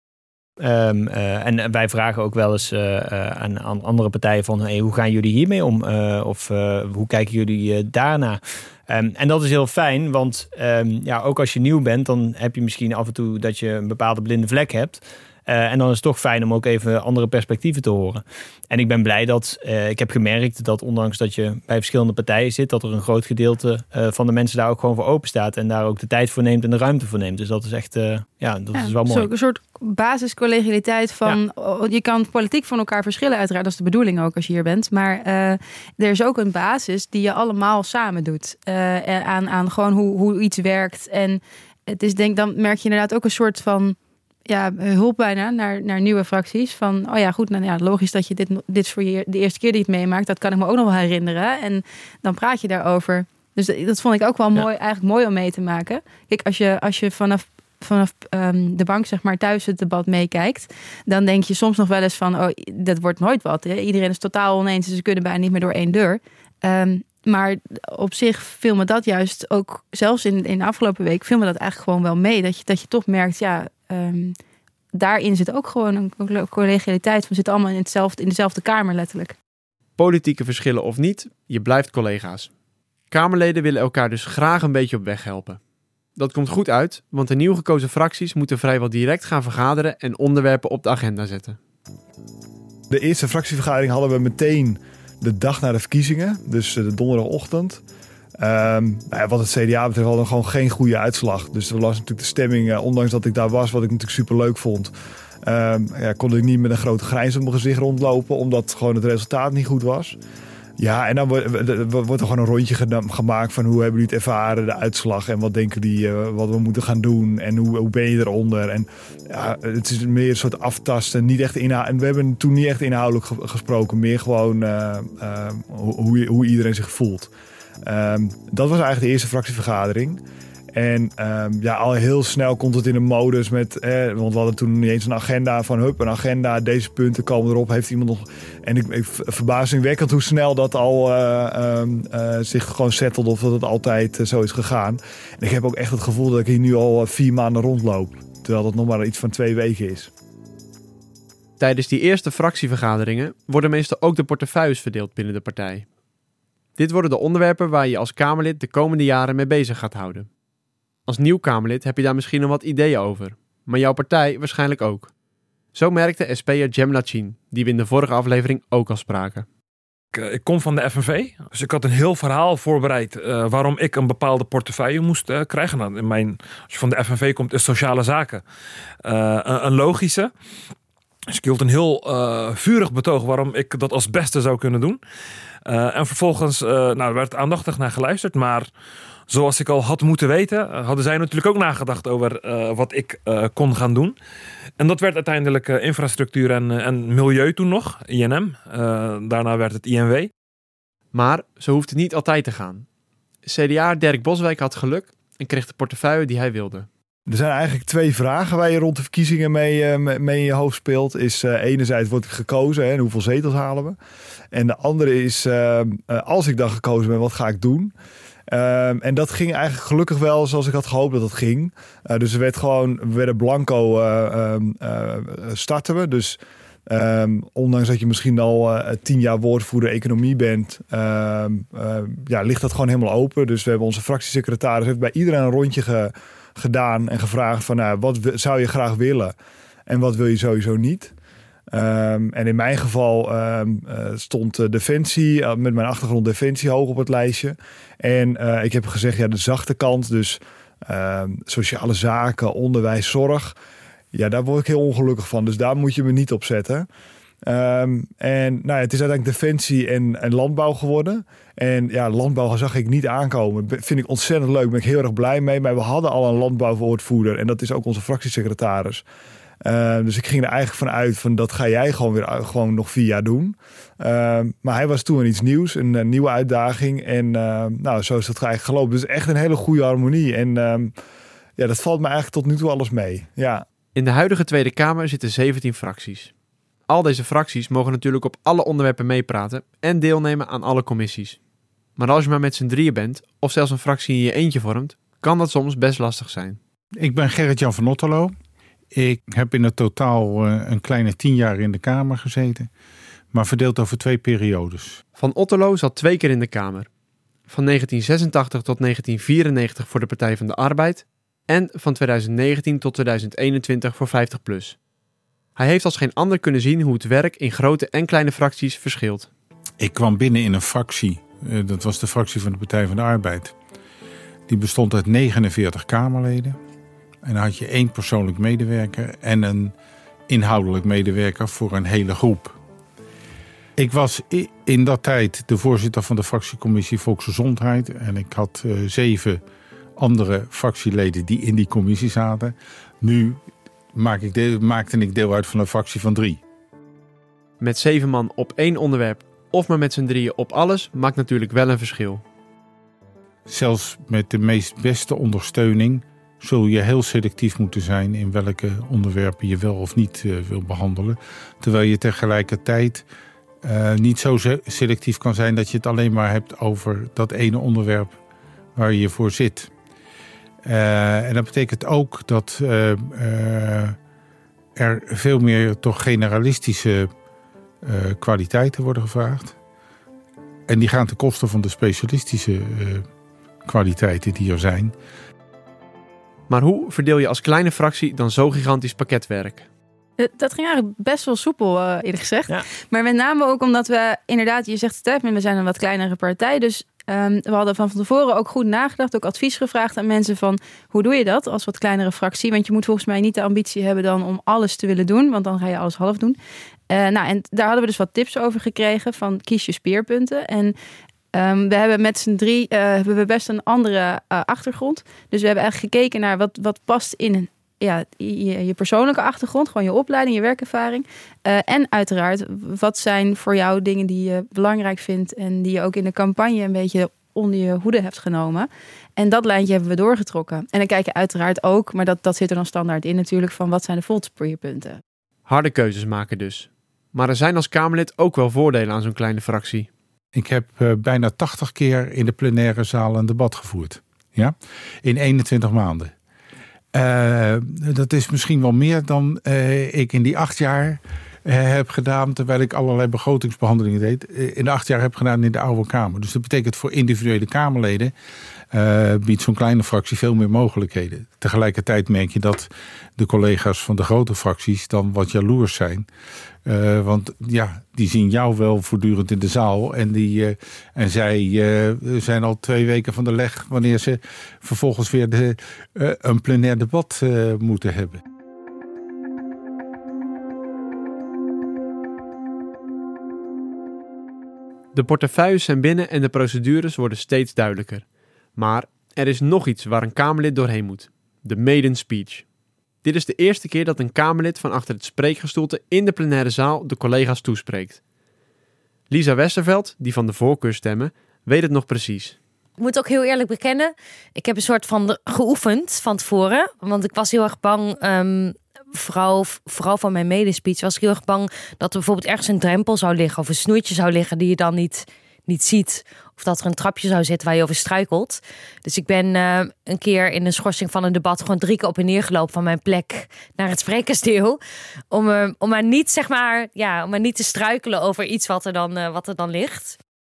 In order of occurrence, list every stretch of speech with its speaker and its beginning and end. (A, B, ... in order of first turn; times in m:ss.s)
0:00.6-0:29.3 A
0:28.7-1:14.4 B
1:14.9-1:19.4 B
1:20.0-1:22.5 C
1:23.1-1:25.6 C
1:26.2-1:31.6 C
1:32.9-1:37.8 D
1:38.4-1:44.9 D
1:45.4-1:50.2 D
1:50.8-2:07.3 D
2:07.8-2:10.2 D
2:10.7-2:30.1 D
2:31.6-2:35.8 C
2:36.8-2:40.3 C
2:41.1-2:45.1 C
2:45.7-2:49.4 C
2:50.1-2:58.4 E
2:59.0-3:00.3 E
3:01.3-3:05.0 E
3:05.6-3:08.7 E
3:09.3-3:14.2 E
3:14.8-3:20.3 E
3:21.1-3:22.8 C
3:23.4-3:26.9 C
3:27.3-3:34.0 D
3:34.5-3:37.9 D
3:38.5-3:59.3 D
3:59.9-4:01.1 D
4:01.7-4:13.5 D
4:14.1-4:16.9 D
4:17.4-4:29.0 D
4:29.6-4:40.9 D
4:41.6-4:43.6 D
4:43.9-4:46.3 C
4:46.9-4:51.4 C
4:52.0-4:56.6 C
4:57.0-4:58.3 F
4:58.9-5:02.7 F
5:03.3-5:05.0 F
5:05.2-5:06.9 C
5:07.5-5:14.8 C
5:15.6-5:19.3 C
5:19.8-5:23.5 F
5:24.5-5:26.6 F
5:27.2-5:29.7 F
5:30.3-5:32.6 F
5:33.8-5:39.4 F
5:40.0-5:43.4 F
5:43.9-5:46.4 F
5:47.6-5:52.2 C
5:53.5-6:03.0 F
6:03.6-6:08.1 F
6:08.7-6:09.7 F
6:10.6-6:14.0 F
6:14.8-6:17.1 F
6:17.8-6:19.5 F
6:20.7-6:23.1 F
6:23.6-6:24.9 F
6:26.5-6:29.6 C
6:30.2-6:46.4 B
6:46.9-6:50.7 B
6:51.3-7:15.0 B
7:15.4-7:19.9 C
7:20.3-7:26.1 F
7:26.9-7:38.1 F
7:38.7-7:46.0 F
7:46.6-7:58.2 F
8:04.9-8:12.4 C
8:13.0-8:18.0 C
8:19.1-8:22.4 C
8:22.8-8:44.6 G
8:45.1-8:50.0 G